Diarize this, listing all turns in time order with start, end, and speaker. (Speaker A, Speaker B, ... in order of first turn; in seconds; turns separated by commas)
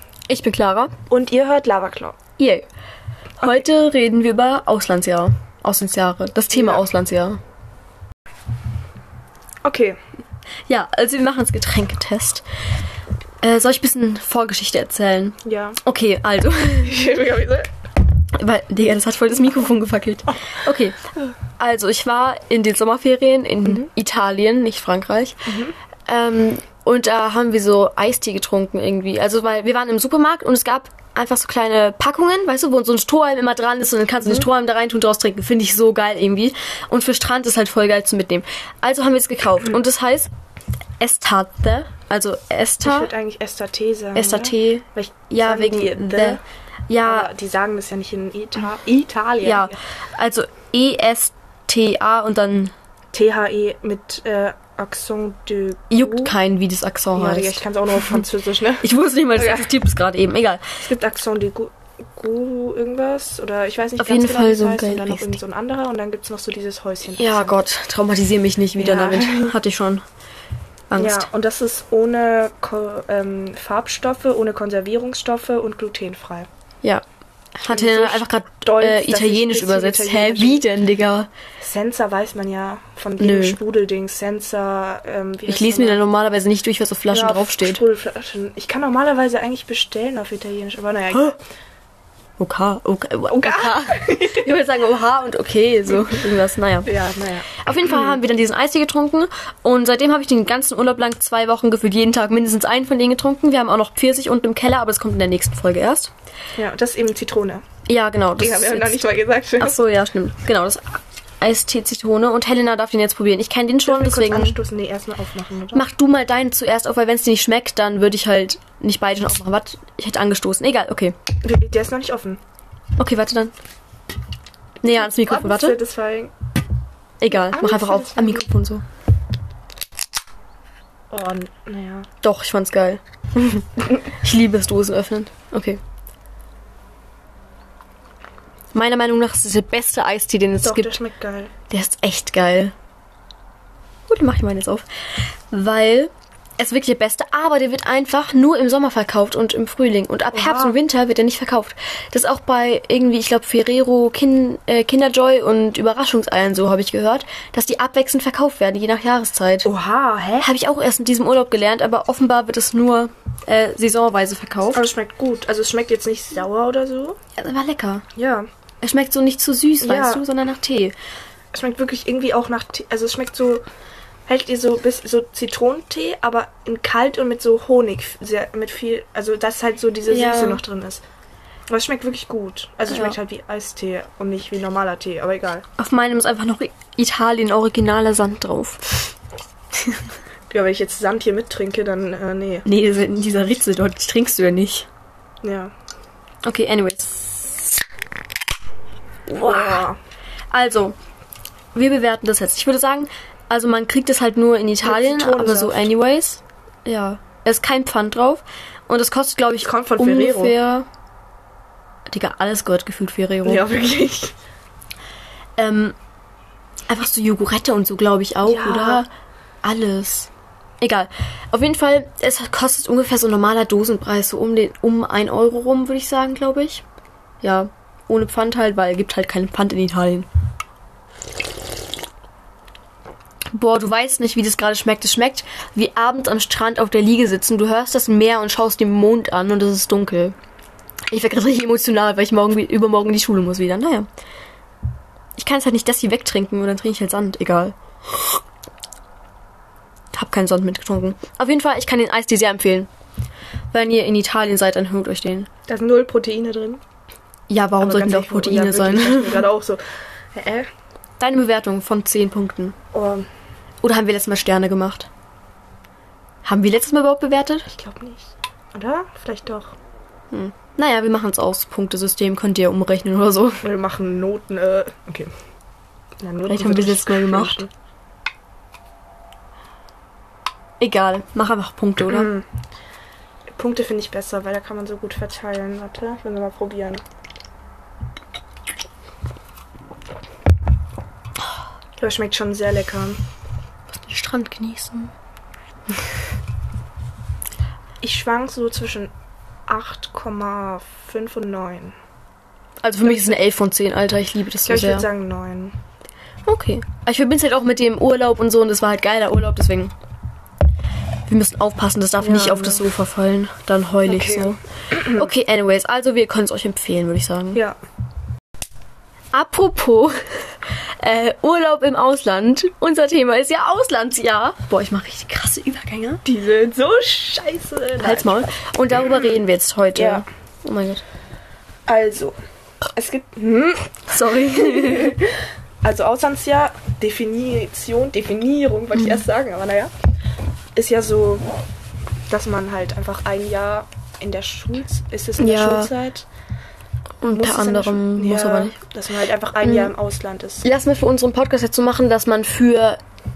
Speaker A: 0.3-0.9, Speaker B: 1.1-2.2, Speaker A: 2.4-2.6, Speaker A: 3.4-7.4, Speaker B: 6.5-6.8, Speaker B: 9.7-10.0, Speaker A: 10.7-12.4, Speaker A: 13.4-17.0, Speaker B: 15.4-15.8, Speaker B: 16.8-17.7, Speaker A: 18.4-21.0, Speaker A: 21.6-25.5, Speaker B: 25.5-25.8, Speaker A: 26.1-40.3, Speaker A: 41.0-43.1, Speaker B: 42.8-46.4, Speaker A: 44.1-47.3, Speaker B: 47.0-49.8, Speaker A: 49.4-52.7, Speaker B: 53.1-56.3, Speaker A: 55.9-58.2, Speaker B: 57.1-59.7, Speaker A: 58.8-60.8, Speaker B: 60.8-67.6, Speaker A: 64.0-65.4, Speaker A: 67.1-70.0, Speaker B: 68.8-69.6, Speaker A: 70.9-71.3, Speaker B: 71.0-76.5, Speaker A: 77.6-81.3, Speaker B: 77.7-80.7, Speaker B: 81.6-86.0, Speaker A: 83.2-83.6, Speaker A: 85.5-87.8, Speaker B: 87.1-91.4, Speaker A: 92.4-96.9, Speaker B: 93.3-94.5, Speaker B: 96.8-98.2, Speaker A: 97.5-106.1, Speaker B: 106.6-107.7, Speaker A: 107.9-109.1, Speaker B: 108.4-109.8, Speaker A: 109.6-114.6, Speaker B: 113.9-115.9, Speaker A: 115.7-121.2, Speaker B: 121.4-122.4, Speaker A: 123.0-123.5, Speaker A: 124.8-125.8, Speaker B: 124.8-126.3, Speaker A: 127.2-128.8, Speaker B: 127.3-128.5, Speaker B: 131.1-132.1, Speaker A: 132.2-135.8, Speaker A: 138.7-141.0, Speaker B: 140.6-141.5, Speaker A: 141.7-142.7, Speaker A: 144.1-159.7, Speaker B: 150.3-150.8, Speaker B: 159.7-160.5, Speaker A: 160.4-164.8, Speaker B: 164.7-167.2, Speaker A: 167.4-168.1, Speaker B: 168.2-168.5, Speaker A: 168.8-170.9, Speaker B: 169.8-170.2, Speaker B: 171.5-173.6, Speaker B: 174.3-181.0, Speaker A: 180.1-180.6, Speaker B: 181.7-185.7, Speaker A: 182.9-183.2, Speaker A: 185.8-189.1, Speaker A: 189.8-190.0, Speaker B: 190.5-192.7, Speaker A: 192.7-194.9, Speaker B: 195.4-195.7, Speaker A: 196.4-197.8, Speaker A: 199.3-199.9, Speaker B: 199.4-200.0, Speaker A: 200.5-201.0, Speaker A: 201.7-210.9, Speaker B: 204.8-205.9, Speaker B: 209.6-210.6, Speaker A: 212.1-213.7, Speaker B: 213.4-214.3, Speaker A: 215.6-216.0, Speaker A: 216.9-219.1, Speaker B: 218.4-219.1, Speaker A: 219.6-220.3, Speaker A: 220.8-226.8, Speaker A: 227.4-230.3, Speaker A: 233.5-240.4, Speaker A: 241.1-244.1, Speaker A: 245.4-248.4, Speaker A: 250.1-252.9, Speaker A: 253.7-255.5, Speaker B: 255.7-256.8, Speaker A: 257.5-259.5, Speaker B: 257.8-259.8, Speaker B: 260.3-260.7, Speaker A: 261.2-262.8, Speaker B: 262.9-263.3, Speaker A: 263.8-265.1, Speaker A: 266.4-267.7, Speaker B: 267.7-269.8, Speaker A: 270.3-273.6, Speaker B: 273.6-275.3, Speaker B: 276.2-277.7, Speaker A: 276.5-277.6, Speaker A: 280.8-282.3, Speaker B: 282.1-282.5, Speaker B: 283.6-287.0, Speaker B: 292.0-293.2, Speaker A: 293.9-295.1, Speaker B: 298.0-299.1, Speaker B: 299.7-302.0, Speaker A: 302.8-305.1, Speaker B: 303.0-303.4, Speaker B: 304.7-305.8, Speaker A: 306.5-309.9, Speaker A: 311.3-317.6, Speaker B: 312.2-312.9, Speaker B: 314.1-315.3, Speaker A: 319.3-326.2, Speaker B: 326.2-328.5, Speaker A: 328.0-331.0, Speaker B: 329.9-330.2, Speaker B: 331.9-332.4, Speaker B: 332.9-335.3, Speaker A: 334.1-335.2, Speaker B: 335.8-339.9, Speaker A: 338.9-339.2, Speaker B: 340.8-341.5, Speaker B: 342.3-346.3, Speaker A: 345.4-345.9, Speaker A: 347.2-348.8, Speaker B: 347.3-350.6, Speaker A: 349.6-349.9, Speaker A: 350.6-353.0